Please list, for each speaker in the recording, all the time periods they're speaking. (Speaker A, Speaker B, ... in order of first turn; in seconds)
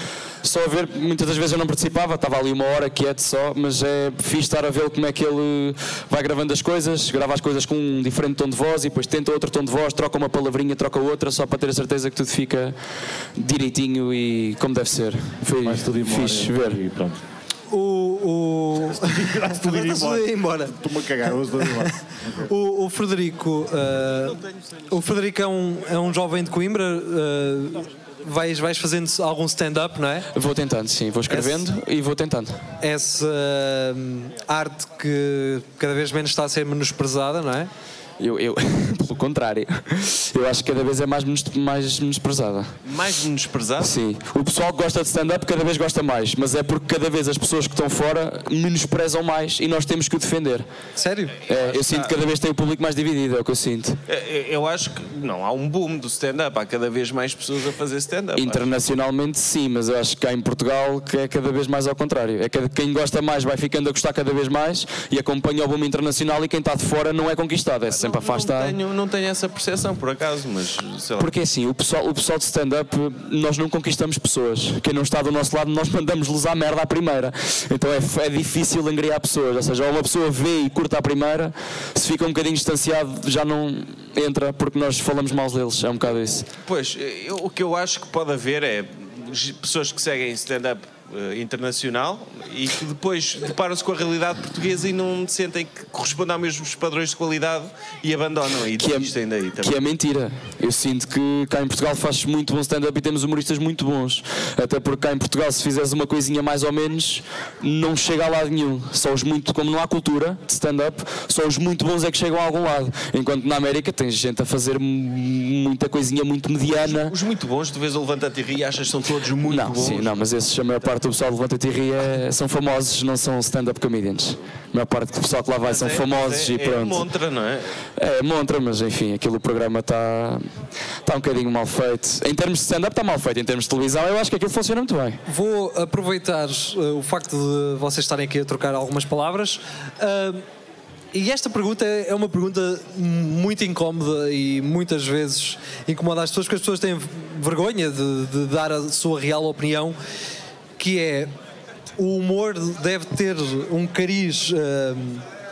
Speaker A: 0.4-12.8, 13.4-16.8, 30.3-32.6, 38.2-42.7, 43.8-50.7, 51.5-54.0, 58.4-68.8, 71.2-86.5, 98.8-117.2, 119.5-127.0, 128.0-130.4, 131.0-135.2
Speaker B: 15.6-17.2, 19.0-22.5
Speaker C: 17.7-20.8, 21.3-24.4, 24.9-30.3, 31.3-31.7, 32.8-37.7, 51.0-51.4, 135.3-140.4, 141.1-150.0, 150.8-151.3, 152.0-155.2
Speaker D: 42.9-44.0, 51.6-52.1, 54.1-58.7, 68.0-71.3, 86.7-99.8, 116.7-120.3, 125.6-127.7